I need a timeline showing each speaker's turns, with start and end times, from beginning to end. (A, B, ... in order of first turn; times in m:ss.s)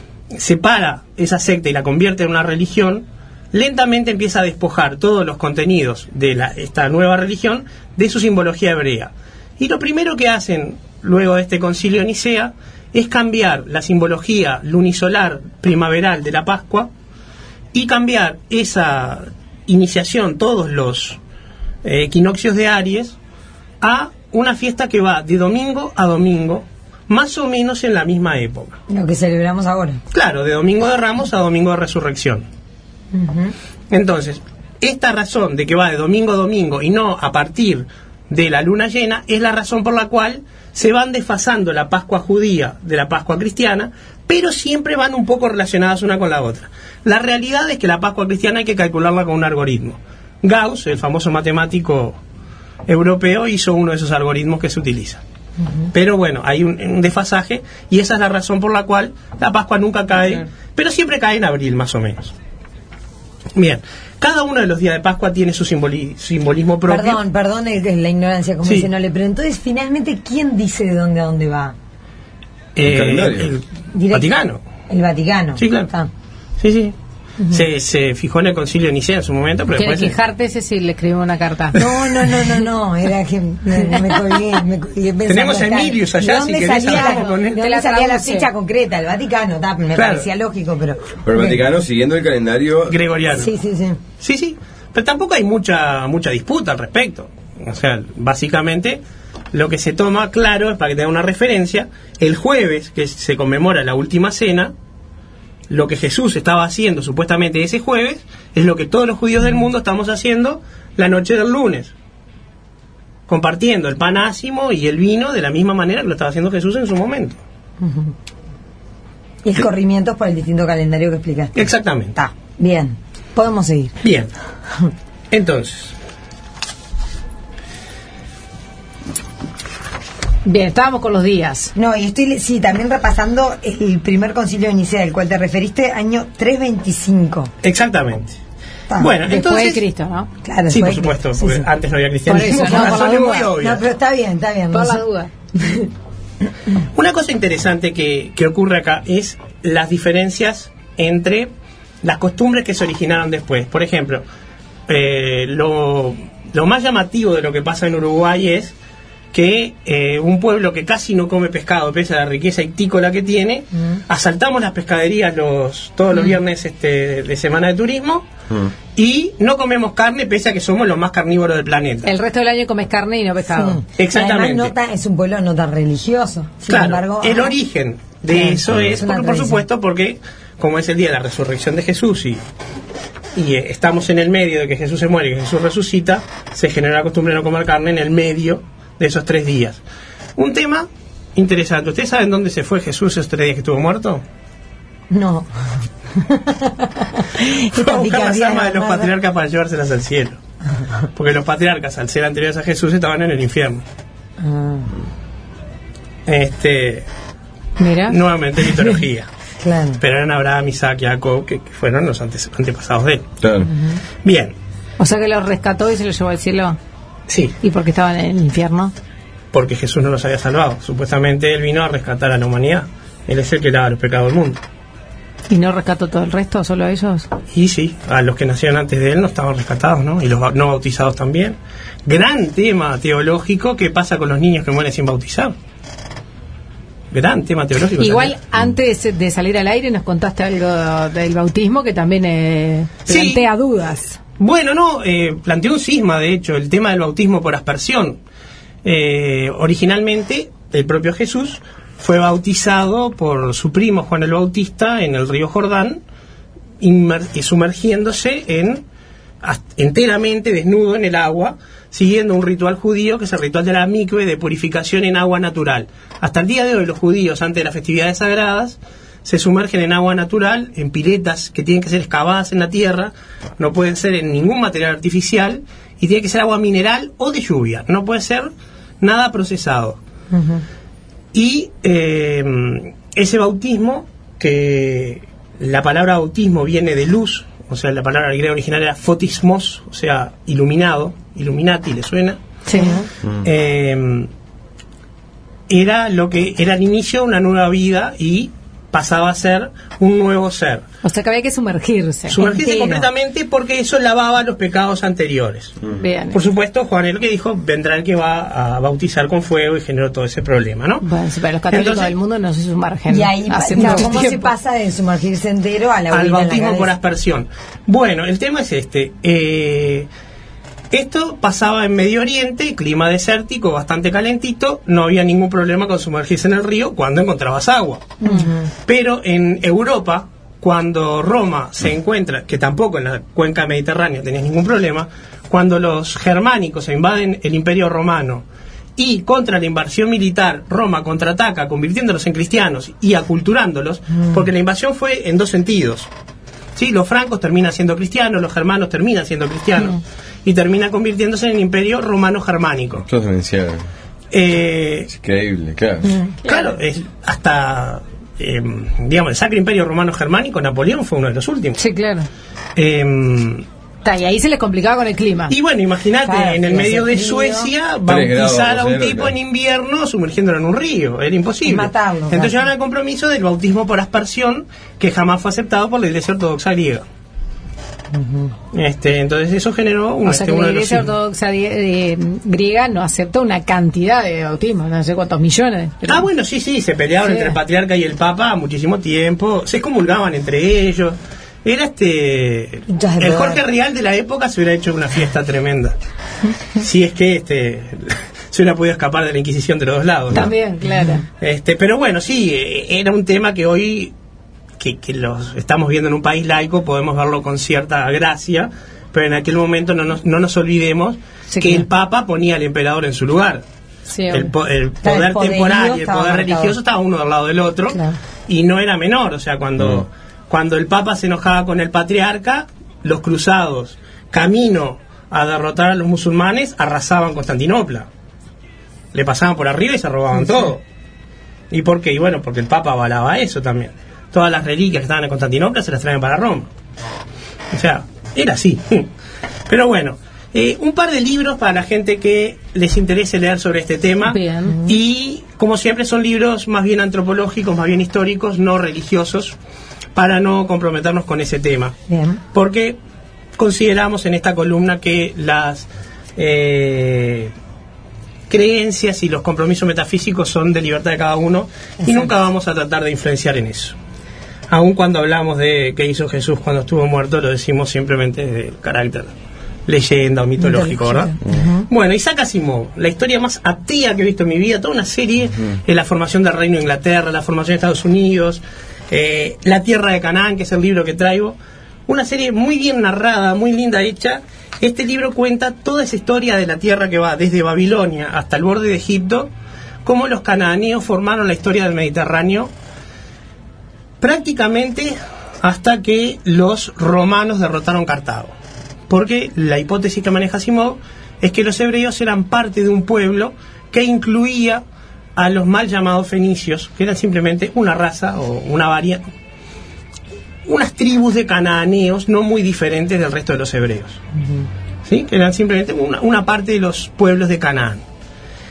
0:00.3-0:16.9 A
0:17.7-0:21.2 A
0:21.8-0:23.2 A
0:23.8-0:28.8 A
0:28.9-0:30.0 B
0:30.1-0:32.5 A
0:33.1-0:33.5 B
0:33.9-0:52.2 A
0:52.9-0:55.2 A
0:55.9-1:02.3 A
1:03.6-1:07.2 A
1:06.9-1:11.8 B
1:08.6-1:08.9 A
1:12.8-1:14.6 A
1:12.8-1:13.6 C
1:13.9-1:14.3 B
1:14.9-1:16.1 B
1:15.6-1:15.9 A
1:16.6-1:17.0 A
1:17.5-1:20.1 A
1:19.7-1:21.8 D
1:21.8-1:31.6 B
1:21.8-1:22.4 A
1:25.3-1:27.6 A
1:26.8-1:28.5 D
1:30.0-1:30.3 A
1:31.2-1:33.0 C
1:32.9-1:33.5 A
1:33.3-1:34.0 B
1:34.2-1:39.0 A
1:39.5-1:44.7 A
1:45.7-1:51.9 A
1:53.3-1:57.4 A
1:57.8-1:58.1 B
1:59.4-2:01.6 B
2:01.6-2:02.2 A
2:02.1-2:03.9 B
2:04.0-2:04.3 A
2:05.3-2:05.9 A
2:10.4-2:11.7 D
2:11.8-2:17.5 B
2:17.6-2:18.4 A
2:18.9-2:19.2 B
2:19.0-2:19.8 A
2:19.3-2:20.3 D
2:20.4-2:21.7 B
2:20.7-2:23.8 A
2:22.3-2:23.5 D
2:22.3-2:25.0 B
2:24.7-2:25.7 D
2:26.9-2:31.5 A
2:32.0-2:34.2 A
2:34.9-2:38.8 A
2:39.3-2:48.3 A
2:48.9-2:52.1 A
2:52.0-2:53.8 D
2:53.5-2:57.6 B
2:54.0-2:54.8 A
2:56.7-3:02.4 A
2:58.3-2:59.6 B
2:58.7-2:59.0 C
3:03.4-3:09.8 A
3:10.4-3:14.2 A
3:15.1-3:15.5 B
3:16.2-3:19.1 B
3:17.6-3:20.4 A
3:21.2-3:23.8 A
3:24.4-3:24.9 B
3:26.3-3:27.1 A
3:27.8-3:28.2 D
3:28.1-3:29.3 A
3:29.6-3:30.0 B
3:30.0-3:33.3 A
3:33.4-3:33.7 C
3:33.6-3:34.0 B
3:34.2-3:34.6 A
3:35.0-3:36.8 D
3:37.3-3:37.6 A
3:37.6-3:38.9 D
3:39.5-3:44.6 A
3:45.5-3:47.3 D
3:47.5-3:55.6 A
3:57.1-3:58.4 A
3:58.0-4:04.2 D
4:03.1-4:03.5 A
4:04.4-4:08.2 A
4:08.8-4:16.0 A
4:16.8-4:18.8 A
4:19.4-4:40.0 A
4:40.3-4:40.6 B
4:41.3-4:52.4 A
4:52.7-4:53.0 D
4:52.7-4:53.1 B
4:53.4-4:54.3 A
4:55.7-5:00.9 A
5:01.0-5:02.8 D
5:02.3-5:05.8 A
5:06.0-5:06.4 D
5:06.3-5:11.1 A
5:11.0-5:14.5 D
5:11.7-5:12.1 A
5:13.1-5:16.9 B
5:13.7-5:14.4 A
5:16.1-5:20.1 A
5:20.9-5:38.4 A
5:28.2-5:28.7 B
5:39.0-5:46.1 A
5:46.8-5:53.1 A
5:53.1-5:53.8 C
5:54.3-5:55.1 A
5:55.1-5:56.1 C
5:56.0-5:56.4 B
5:56.4-5:56.7 D
5:56.5-6:01.8 A
6:01.8-6:02.3 D
6:02.8-6:03.7 A
6:04.0-6:05.6 D
6:05.5-6:17.0 A
6:06.2-6:07.7 B
6:08.1-6:09.3 C
6:11.6-6:12.6 B
6:18.1-6:18.6 B
6:18.7-6:21.1 A
6:20.2-6:26.3 D
6:26.0-6:36.0 A
6:27.2-6:27.6 D
6:32.9-6:33.6 B
6:36.8-6:40.5 A
6:40.3-6:41.2 D
6:41.4-6:44.1 A
6:44.8-6:53.6 A
6:51.5-6:51.8 D
6:54.1-6:54.5 D
6:54.3-7:08.1 A
6:55.0-6:56.8 B
6:57.9-6:58.2 B
7:09.1-7:10.8 A
7:11.7-7:16.7 A
7:17.7-7:19.1 A
7:19.7-7:29.6 A
7:24.2-7:24.8 D
7:30.2-7:32.0 A
7:32.1-7:32.4 B
7:32.5-7:33.0 A
7:33.6-7:37.5 A
7:38.5-7:44.0 A
7:42.0-7:42.3 B
7:44.7-7:49.3 A
7:49.9-7:51.4 A
7:50.6-7:51.9 B
7:51.9-8:09.5 A
8:10.0-8:12.7 A
8:14.2-8:18.5 A
8:19.1-8:24.8 A
8:25.4-8:29.3 A
8:30.7-8:34.2 A
8:35.0-8:38.0 A